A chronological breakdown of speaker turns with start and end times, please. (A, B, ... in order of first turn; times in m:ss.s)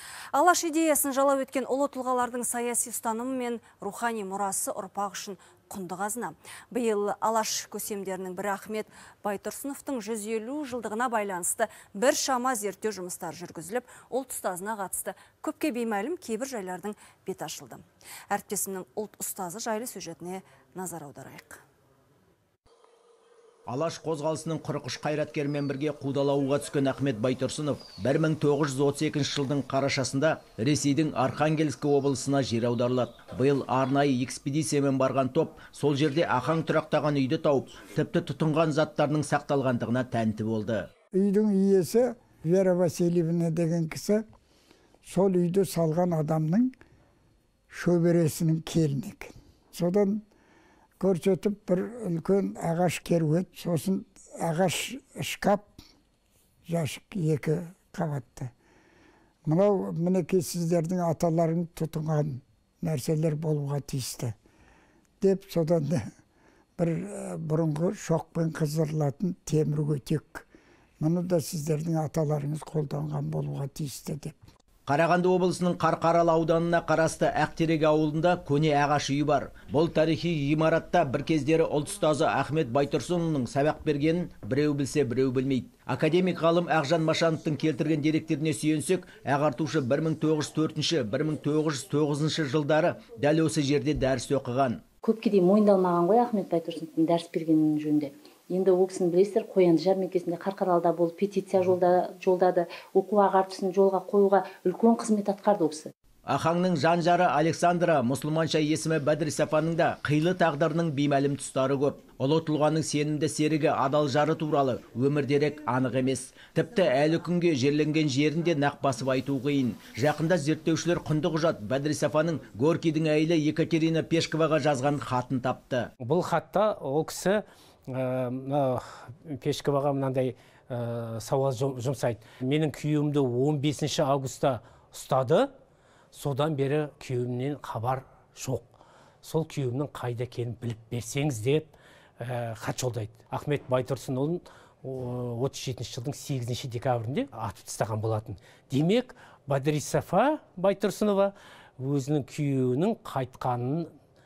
0:00.3-0:21.6 A
0:23.7-0:40.9 B
0:41.1-0:44.2 C
0:45.0-0:46.7 C
0:47.7-0:50.2 C
0:51.0-0:55.7 C
0:56.7-0:58.5 C
0:59.4-1:04.3 C
1:05.2-1:06.1 C
1:06.8-1:10.4 C
1:11.0-1:14.4 C
1:14.9-1:34.8 B
1:35.0-1:45.9 D
1:46.3-2:05.9 B
2:06.0-2:15.5 E
2:16.1-2:18.7 E
2:19.2-2:33.9 E